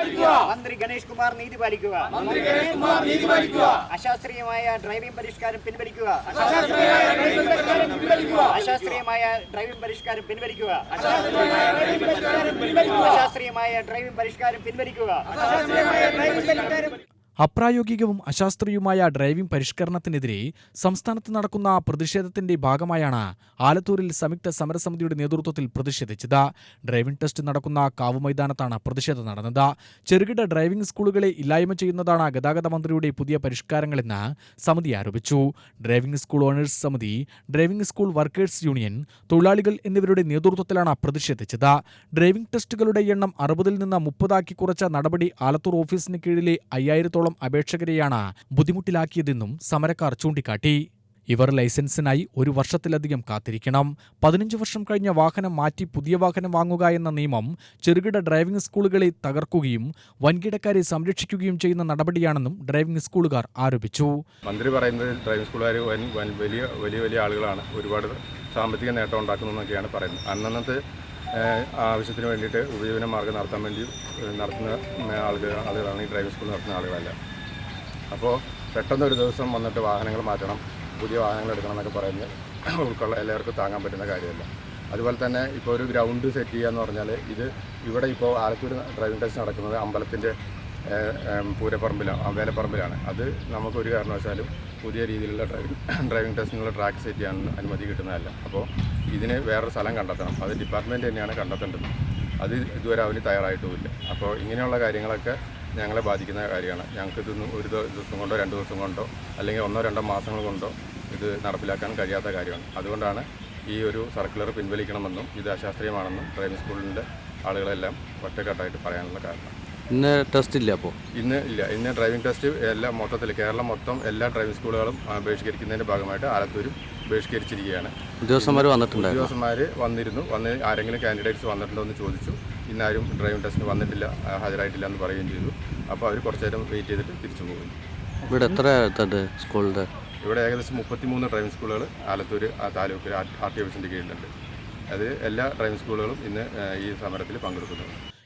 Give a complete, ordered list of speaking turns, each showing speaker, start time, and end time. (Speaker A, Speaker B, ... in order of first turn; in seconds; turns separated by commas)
Speaker A: 0.3-16.9, Speaker B: 17.4-50.8, Speaker B: 51.3-64.1, Speaker C: 64.5-70.8, Speaker C: 71.4-77.2, Speaker C: 78.1-90.3, Speaker C: 90.9-101.9, Speaker C: 102.4-119.5, Speaker D: 119.9-121.0, Speaker C: 121.2-137.8, Speaker D: 128.2-129.3, Speaker D: 138.3-139.9, Speaker C: 140.2-144.3, Speaker C: 144.9-147.9